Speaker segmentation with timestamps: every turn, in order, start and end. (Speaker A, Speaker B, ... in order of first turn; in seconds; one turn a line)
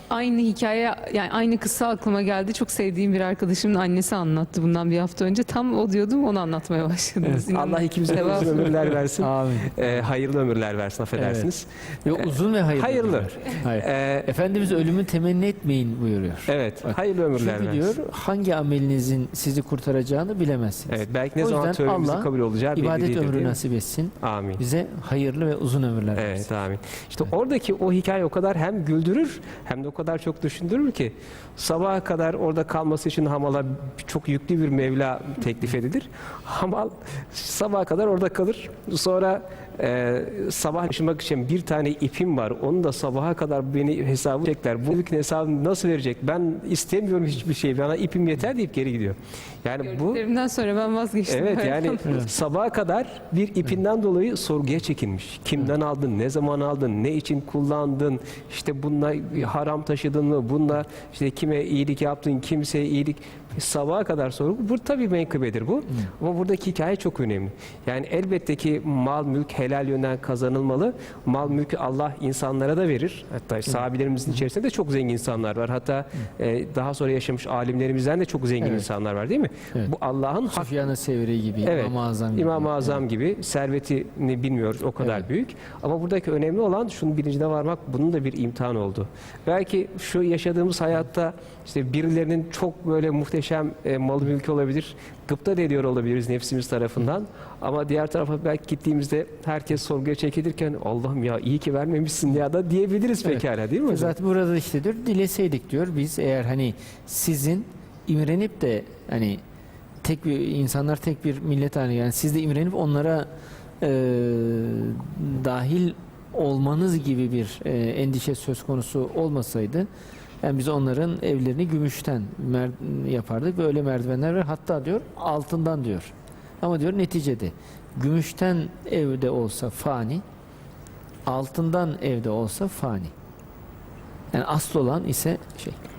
Speaker A: 0.1-8.8
Speaker B: 7.5-14.3
Speaker C: 9.2-10.1
Speaker C: 11.1-11.5
Speaker C: 12.0-26.5
Speaker B: 16.5-17.9
Speaker B: 20.9-23.6
Speaker B: 24.2-24.6
Speaker B: 26.2-50.2
Speaker A: 49.9-52.2
Speaker B: 51.3-80.8
Speaker C: 78.6-78.9
Speaker C: 80.5-83.0
Speaker B: 81.6-104.2
Speaker C: 85.0-85.3
Speaker C: 103.2-109.4
Speaker C: 110.0-113.3
Speaker C: 113.8-119.9
Speaker C: 120.4-130.2
Speaker C: 131.3-133.1
Speaker C: 134.3-135.8